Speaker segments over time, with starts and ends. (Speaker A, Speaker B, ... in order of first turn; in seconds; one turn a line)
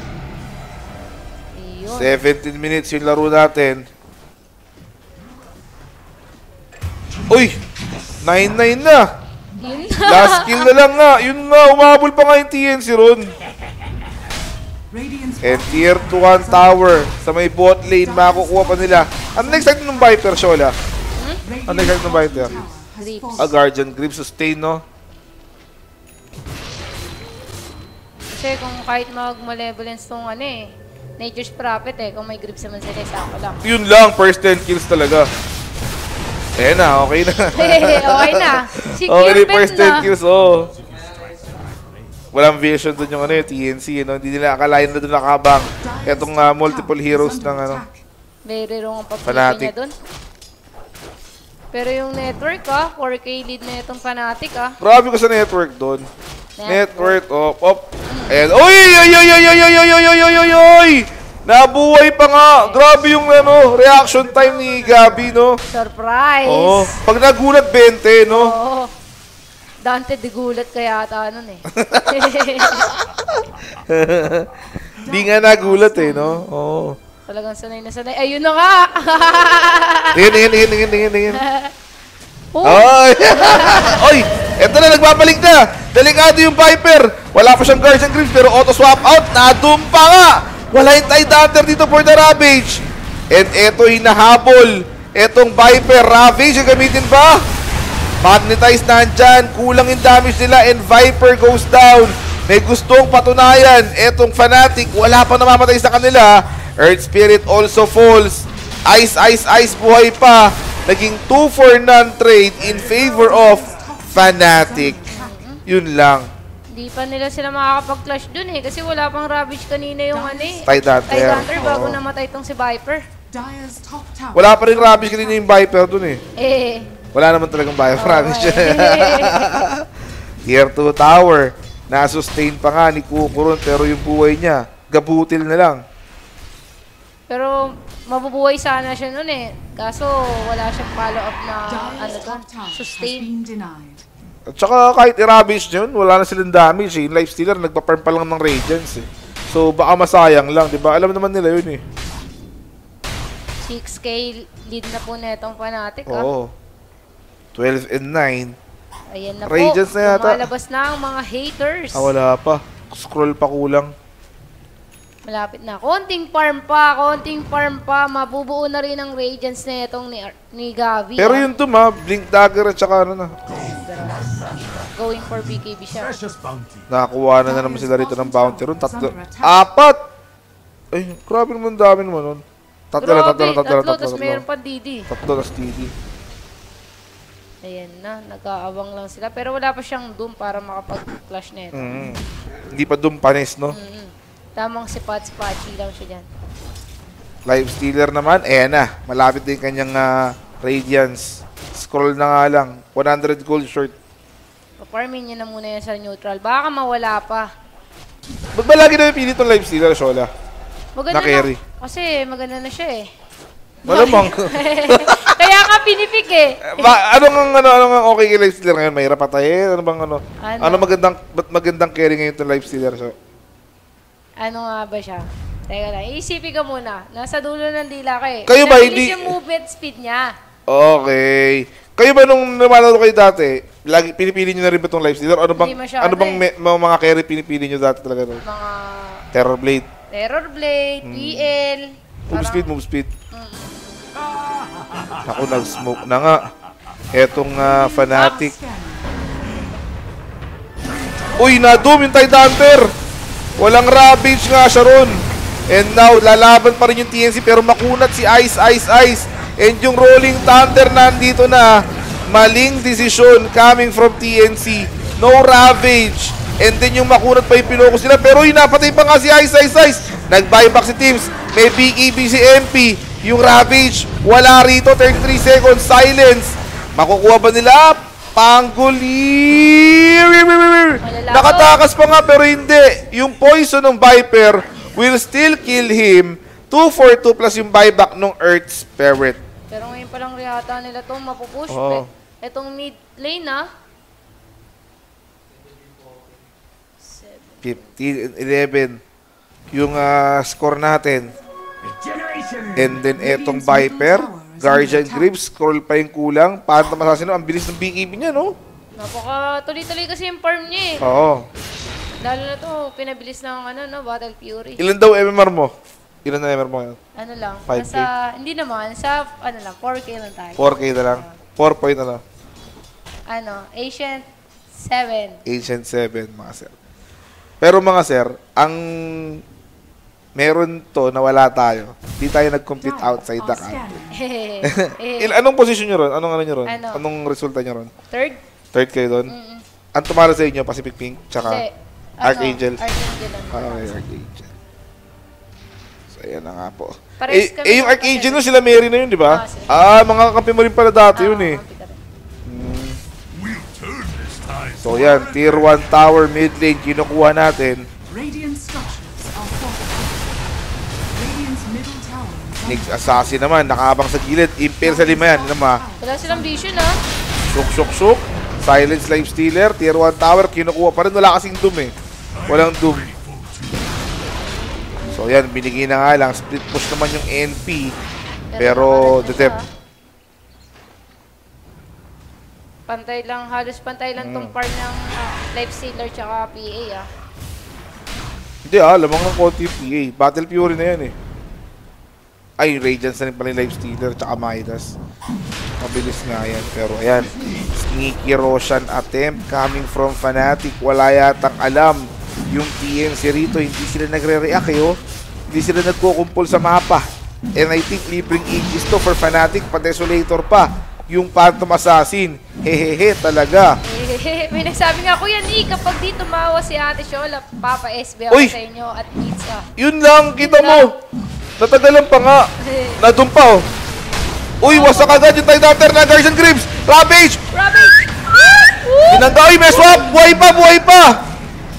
Speaker A: 1.6-2.2
Speaker B: 1.9-3.8
Speaker B: 7.3-7.6
Speaker B: 8.2-9.1
Speaker C: 9.6-10.3
Speaker A: 9.6-10.7
Speaker B: 10.1-13.3
Speaker C: 14.9-17.1
Speaker B: 15.4-20.8
Speaker C: 18.0-20.5
Speaker C: 21.4-23.6
Speaker B: 21.7-22.6
Speaker A: 23.0-23.4
Speaker B: 23.4-24.8
Speaker A: 28.3-33.6
Speaker B: 33.6-35.3
Speaker B: 36.6-40.7
Speaker A: 37.5-40.1
Speaker B: 42.3-47.8
Speaker C: 45.8-48.0
Speaker A: 48.5-49.9
Speaker B: 49.2-49.7
Speaker A: 51.7-54.8
Speaker B: 54.8-56.1
Speaker A: 56.6-57.2
Speaker B: 56.7-65.6
Speaker A: 58.1-58.4
Speaker A: 62.6-62.8
Speaker A: 65.7-67.0
Speaker B: 66.5-68.5
Speaker A: 68.3-68.9
Speaker A: 69.8-72.9
Speaker B: 71.7-74.5
Speaker C: 75.0-76.4
Speaker B: 75.1-77.0
Speaker A: 77.3-80.5
Speaker B: 80.2-81.4
Speaker A: 81.3-81.7
Speaker A: 82.5-84.1
Speaker B: 82.6-97.4
Speaker B: 98.2-115.0
Speaker C: 112.9-115.4
Speaker A: 115.1-115.6
Speaker B: 115.7-116.3
Speaker A: 116.7-123.0
Speaker C: 120.1-120.8
Speaker B: 120.7-122.0
Speaker C: 123.3-125.6
Speaker B: 124.3-126.2
Speaker A: 126.4-126.9
Speaker B: 127.1-129.9
Speaker A: 128.0-129.6
Speaker B: 130.5-135.8
Speaker A: 137.3-143.3
Speaker C: 141.7-144.0
Speaker B: 144.5-151.8
Speaker A: 153.7-156.3
Speaker B: 156.1-156.5
Speaker B: 157.6-158.6
Speaker A: 159.1-162.1
Speaker B: 159.4-160.4
Speaker B: 161.9-163.9
Speaker A: 165.3-171.5
Speaker B: 171.2-173.4
Speaker A: 173.8-174.4
Speaker A: 174.9-176.2
Speaker B: 176.9-180.0
Speaker C: 177.4-179.6
Speaker B: 180.9-184.4
Speaker A: 183.0-185.1
Speaker B: 185.1-185.9
Speaker A: 187.6-192.0
Speaker B: 191.7-193.7
Speaker A: 193.7-196.3
Speaker B: 197.5-203.9
Speaker A: 204.8-207.5
Speaker B: 208.6-210.3
Speaker A: 211.0-213.1
Speaker B: 211.1-211.6
Speaker B: 213.9-215.4
Speaker A: 213.9-217.0
Speaker B: 216.7-223.2
Speaker A: 220.4-220.9
Speaker A: 224.4-230.3
Speaker B: 228.5-229.3
Speaker B: 230.7-238.4
Speaker A: 235.6-236.4
Speaker A: 238.4-239.2
Speaker B: 239.3-239.9
Speaker A: 240.1-242.7
Speaker B: 241.0-241.5
Speaker B: 242.3-243.1
Speaker A: 243.3-243.9
Speaker B: 245.3-246.4
Speaker B: 247.1-248.5
Speaker C: 247.6-249.3
Speaker B: 251.4-252.9
Speaker B: 253.6-289.4
Speaker A: 281.0-281.8
Speaker A: 289.7-293.7
Speaker B: 291.7-292.1
Speaker A: 297.1-297.8
Speaker B: 297.6-299.0
Speaker B: 299.7-301.3
Speaker C: 302.6-305.4
Speaker B: 302.8-308.6
Speaker A: 309.0-311.1
Speaker B: 311.0-311.5
Speaker A: 312.2-314.8
Speaker B: 314.8-315.7
Speaker B: 316.2-317.0
Speaker A: 317.2-321.4
Speaker B: 317.7-318.1
Speaker B: 320.6-322.2
Speaker A: 323.3-325.4
Speaker B: 325.5-326.8
Speaker B: 327.6-329.4
Speaker B: 330.4-333.9
Speaker C: 332.8-334.3
Speaker A: 334.1-335.4
Speaker B: 334.6-337.9
Speaker A: 336.7-337.1
Speaker A: 338.1-338.4
Speaker B: 338.7-339.3
Speaker A: 339.3-339.6
Speaker B: 339.9-341.6
Speaker A: 341.4-344.0
Speaker B: 342.2-342.8
Speaker B: 343.5-344.5
Speaker B: 346.1-351.6
Speaker A: 347.2-348.4
Speaker A: 349.2-349.8
Speaker A: 351.2-352.0
Speaker B: 352.5-353.0
Speaker B: 354.8-357.9
Speaker C: 358.1-360.3
Speaker C: 361.1-363.4
Speaker B: 362.6-365.8
Speaker C: 364.8-367.0
Speaker A: 366.0-367.0
Speaker B: 367.5-371.9
Speaker B: 372.4-373.1
Speaker B: 375.1-377.9
Speaker A: 378.5-379.7
Speaker B: 378.6-379.6
Speaker A: 382.9-387.1
Speaker B: 384.2-384.5
Speaker B: 388.7-391.1
Speaker B: 392.6-395.0
Speaker B: 395.8-397.3
Speaker B: 397.9-405.0
Speaker B: 405.5-413.8
Speaker A: 413.8-419.7
Speaker B: 419.8-420.9
Speaker A: 420.4-421.0
Speaker B: 421.6-423.6
Speaker A: 422.6-423.0
Speaker B: 424.6-427.4
Speaker A: 424.6-425.4
Speaker A: 427.5-430.2
Speaker B: 429.1-431.2